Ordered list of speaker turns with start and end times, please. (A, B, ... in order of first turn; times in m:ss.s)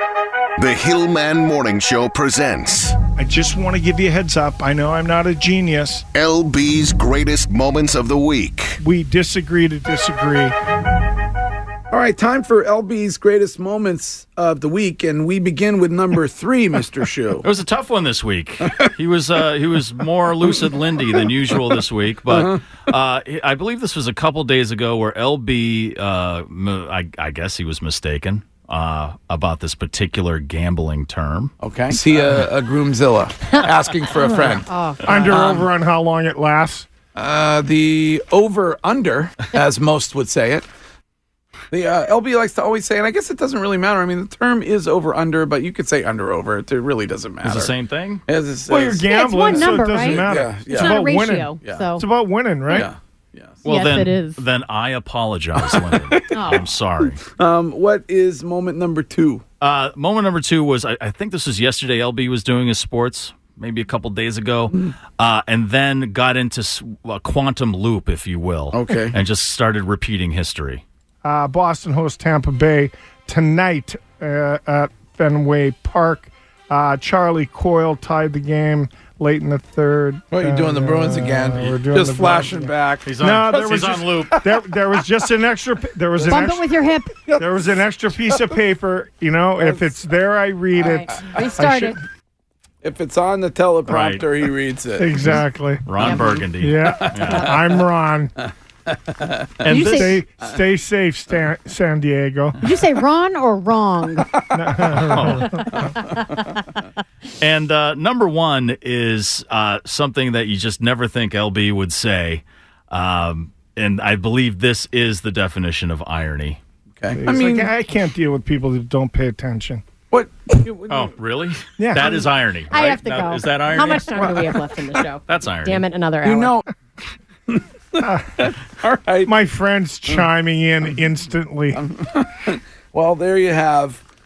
0:00.6-0:03.0 A
0:03.2-0:06.1 B
0:06.1-0:08.8 A
0:08.8-0:10.6 B
0:11.9-0:17.4 C
0:17.4-0:31.6 D
0:22.3-0:22.6 C
0:31.6-0:34.7 C
0:34.2-0:35.4 E
0:35.0-0:36.9 B
0:35.3-0:35.7 C
0:37.2-0:40.7 C
0:41.7-0:47.7 C
0:47.4-0:48.2 D
0:48.3-0:51.0 C
0:48.7-0:52.9 B
0:49.0-0:52.0 E
0:51.6-0:52.0 C
0:52.7-0:53.7 C
0:53.6-0:57.2 D
0:53.6-0:54.4 E
0:55.6-0:59.4 C
0:56.3-0:56.6 E
0:59.6-1:10.8 D
1:08.7-1:09.2 C
1:11.2-1:26.7 B
1:20.3-1:23.2 C
1:23.0-1:24.4 D
1:24.1-1:25.3 C
1:26.2-1:28.6 C
1:26.3-1:27.2 E
1:27.4-1:32.0 B
1:29.6-1:30.0 C
1:30.8-1:32.0 E
1:30.9-1:31.5 C
1:32.8-1:35.4 C
1:33.9-1:34.2 D
1:35.0-1:38.3 B
1:35.2-1:37.6 D
1:36.0-1:36.5 C
1:37.0-1:37.5 C
1:38.9-1:39.7 C
1:39.6-1:40.2 D
1:39.6-1:40.2 E
1:39.9-1:42.6 B
1:42.6-1:44.3 E
1:44.5-1:45.7 B
1:44.9-1:46.1 D
1:45.9-1:46.4 C
1:47.4-1:56.6 D
1:57.0-1:57.7 C
1:57.1-1:59.8 B
2:00.1-2:01.1 C
2:00.9-2:04.3 D
2:01.8-2:02.3 B
2:02.7-2:06.6 E
2:04.2-2:05.0 C
2:05.2-2:05.8 D
2:06.2-2:06.6 C
2:07.5-2:09.3 C
2:09.2-2:11.8 B
2:11.7-2:14.0 C